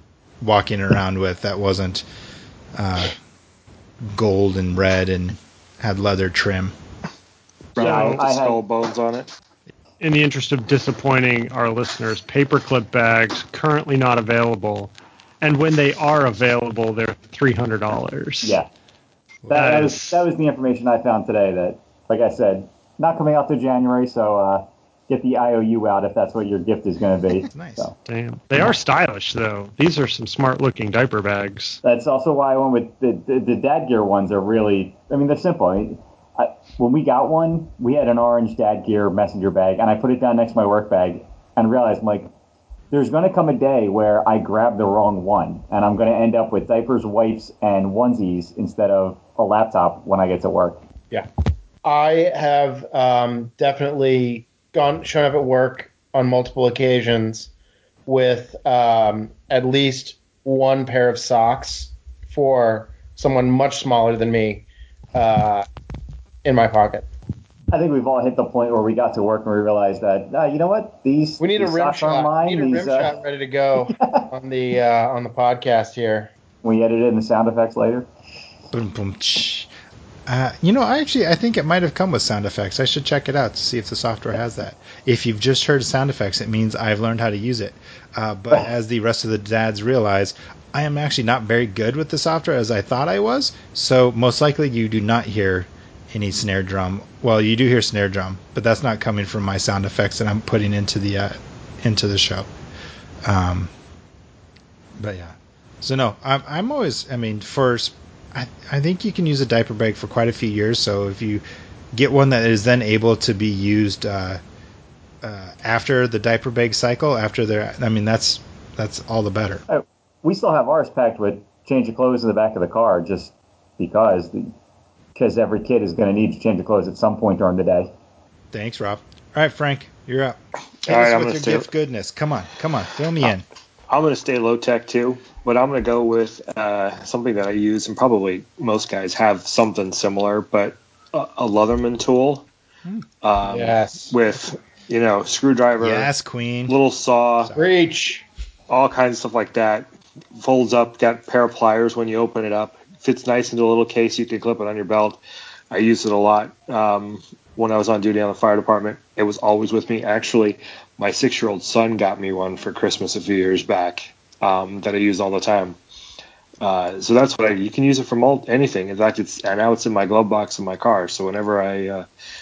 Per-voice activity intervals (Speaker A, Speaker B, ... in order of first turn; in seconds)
Speaker A: 0.4-2.0, 2.8-3.2, 4.0-6.8, 19.4-19.7, 27.4-27.9, 78.7-79.7, 80.3-102.5, 103.2-103.7, 105.0-114.4, 115.2-119.6, 128.5-133.4, 145.8-146.8, 147.4-147.8
Speaker B: 7.8-9.3, 130.8-131.7, 133.9-142.5, 143.2-146.1, 146.7-147.5, 148.7-155.2, 155.7-165.8, 166.6-172.1
Speaker C: 7.8-8.6, 18.4-18.7, 19.5-27.9, 31.8-42.3, 42.9-50.8, 67.7-73.2, 73.8-74.3, 76.6-78.1, 119.7-124.5, 125.2-127.9
Speaker D: 7.8-8.2, 10.0-18.6, 19.5-20.2, 28.1-31.8
Speaker E: 51.8-57.5, 58.1-65.7, 66.5-67.1, 71.4-76.3, 143.4-144.1, 147.5-148.2